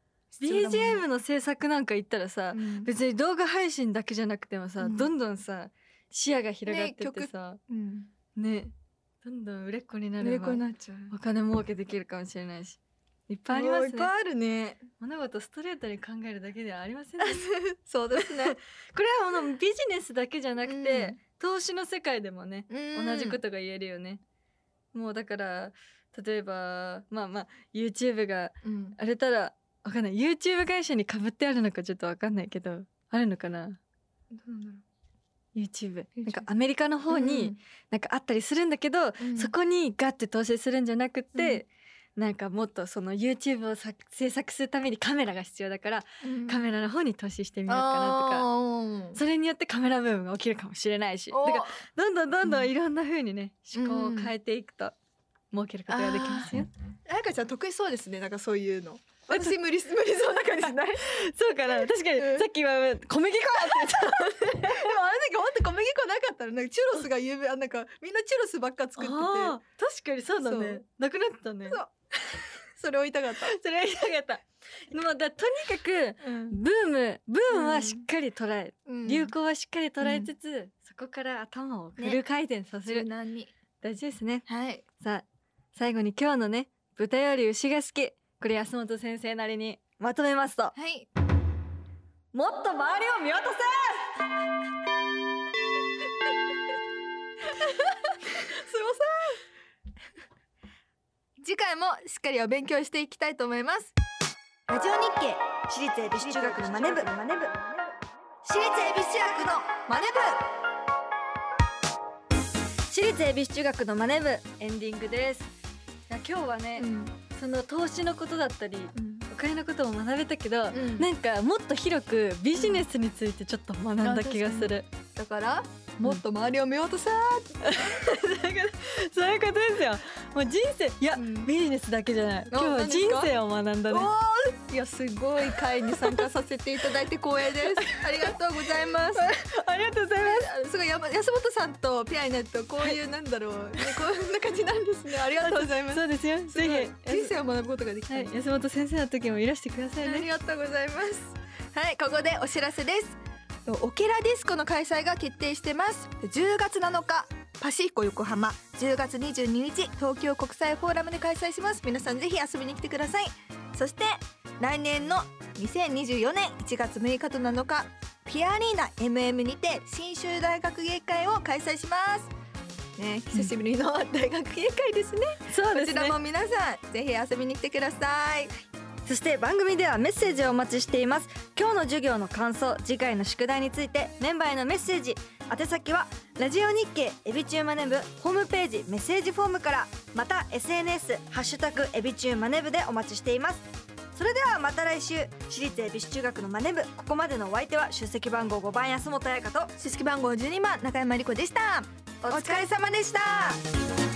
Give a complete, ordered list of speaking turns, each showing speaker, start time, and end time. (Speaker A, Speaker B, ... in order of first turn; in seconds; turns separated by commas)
Speaker A: 0.3-1.0, Speaker B: 0.4-7.6, Speaker A: 2.5-2.9, Speaker A: 4.8-5.1, Speaker A: 6.7-8.1, Speaker B: 8.3-14.1, Speaker A: 10.2-11.1, Speaker A: 13.5-14.8, Speaker B: 15.0-17.4, Speaker A: 17.2-18.6, Speaker B: 18.1-24.2, Speaker A: 20.6-21.2, Speaker A: 22.7-23.4, Speaker B: 24.9-33.8, Speaker A: 28.6-29.0, Speaker A: 34.3-34.8, Speaker B: 35.5-48.5, Speaker A: 36.1-36.5, Speaker A: 37.1-37.6, Speaker A: 39.2-39.5, Speaker A: 41.3-41.6, Speaker A: 46.2-46.6, Speaker A: 47.7-49.2, Speaker B: 49.1-54.9, Speaker A: 51.3-51.8, Speaker A: 52.4-52.7, Speaker A: 53.7-54.3, Speaker B: 55.5-56.7, Speaker A: 55.9-56.5, Speaker A: 57.1-61.0, Speaker B: 61.0-64.9, Speaker A: 61.7-62.5, Speaker A: 63.7-69.6, Speaker B: 69.0-71.8, Speaker A: 70.4-70.8, Speaker A: 71.6-71.9, Speaker A: 72.8-73.5, Speaker B: 73.4-83.1, Speaker A: 76.2-76.6, Speaker A: 77.5-78.0, Speaker A: 78.8-79.3, Speaker A: 80.0-80.3, Speaker A: 82.8-83.5, Speaker B: 83.8-84.5, Speaker A: 84.5-84.8, Speaker B: 85.0-90.8, Speaker A: 90.7-91.1, Speaker B: 92.3-94.1, Speaker A: 97.5-99.4, Speaker A: 101.4-103.9, Speaker A: 104.7-105.5, Speaker B: 105.7-107.5, Speaker A: 106.2-107.2, Speaker A: 108.4-110.5, Speaker B: 112.9-115.5, Speaker B: 116.1-124.9, Speaker A: 116.8-117.1, Speaker A: 118.9-119.3, Speaker A: 120.7-121.1, Speaker A: 122.5-122.8, Speaker A: 124.0-127.6, Speaker B: 127.6-134.1, Speaker A: 131.1-131.5, Speaker A: 132.5-133.3, Speaker A: 133.9-139.2, Speaker B: 135.9-136.3, Speaker B: 137.7-138.3, Speaker B: 139.1-140.4, Speaker A: 140.2-148.3, Speaker B: 145.4-147.3, Speaker B: 148.1-150.3, Speaker A: 150.0-172.3, Speaker A: 172.9-178.6, Speaker B: 175.5-176.2, Speaker B: 179.0-199.7, Speaker A: 199.8-203.6, Speaker B: 202.2-202.7